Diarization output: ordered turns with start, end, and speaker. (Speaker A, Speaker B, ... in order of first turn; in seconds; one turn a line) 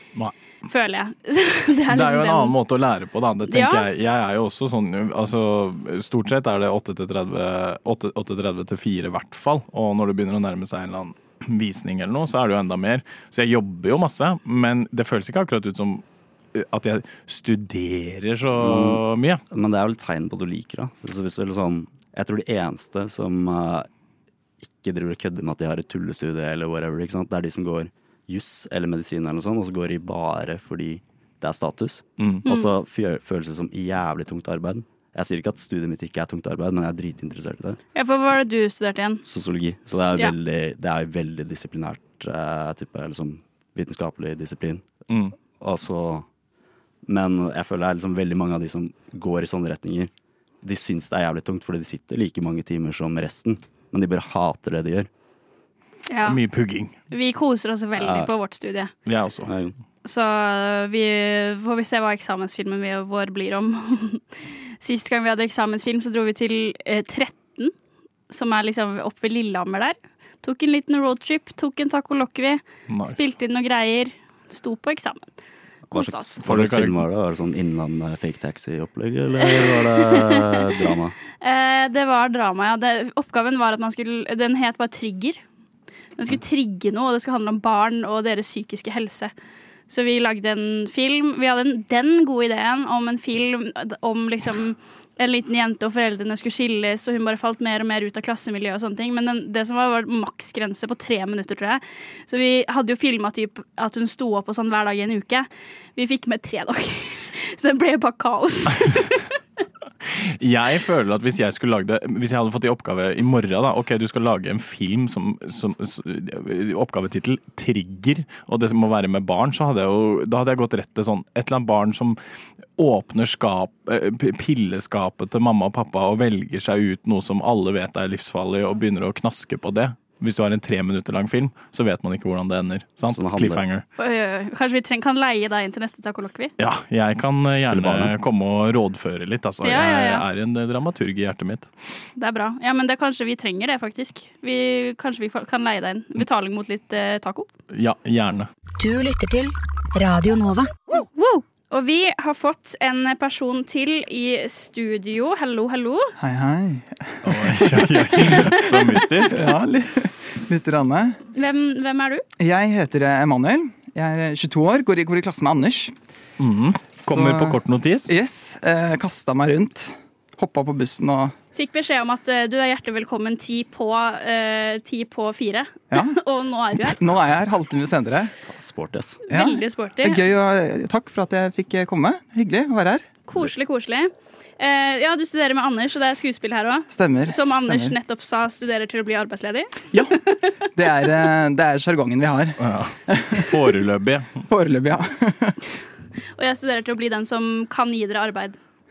Speaker A: 0.6-2.5
Speaker B: 1.9-19.4
Speaker A: 3.5-3.9
Speaker C: 18.5-23.9
Speaker C: 24.6-37.8
Speaker B: 32.2-32.4
Speaker A: 32.5-32.7
Speaker A: 37.9-39.2
Speaker C: 39.2-44.9
Speaker B: 45.1-45.4
Speaker C: 45.6-46.2
Speaker C: 47.0-50.1
Speaker C: 50.6-55.1
Speaker A: 56.1-56.4
Speaker B: 56.2-56.9
Speaker A: 57.1-58.9
Speaker C: 58.0-58.3
Speaker B: 59.1-59.5
Speaker C: 59.4-59.8
Speaker A: 60.0-64.2
Speaker A: 64.8-67.7
Speaker A: 68.3-75.3
Speaker B: 72.9-73.3
Speaker C: 75.9-81.1
Speaker A: 75.9-76.4
Speaker B: 76.4-77.0
Speaker A: 79.4-80.7
Speaker A: 81.4-85.4
Speaker A: 86.2-89.3
Speaker A: 89.9-109.3
Speaker B: 110.0-122.2
Speaker B: 122.8-133.8
Speaker C: 133.1-133.6
Speaker A: 134.0-136.5
Speaker B: 136.6-141.7
Speaker C: 137.6-138.1
Speaker A: 139.6-140.2
Speaker A: 142.2-147.5
Speaker B: 147.7-148.5
Speaker D: 148.8-150.7
Speaker A: 151.1-156.1
Speaker E: 156.2-158.7
Speaker B: 157.2-159.5
Speaker A: 158.2-159.2
Speaker E: 159.3-161.2
Speaker A: 161.3-162.2
Speaker E: 162.4-165.9
Speaker B: 166.4-168.1
Speaker E: 167.1-171.3
Speaker A: 171.6-177.0
Speaker E: 176.8-178.3
Speaker C: 178.4-179.2
Speaker A: 179.3-180.2
Speaker E: 179.3-183.1
Speaker A: 183.3-190.5
Speaker E: 186.9-187.9
Speaker E: 189.9-190.2
Speaker E: 190.7-193.6
Speaker B: 192.6-194.3
Speaker E: 194.5-195.6
Speaker A: 196.4-198.6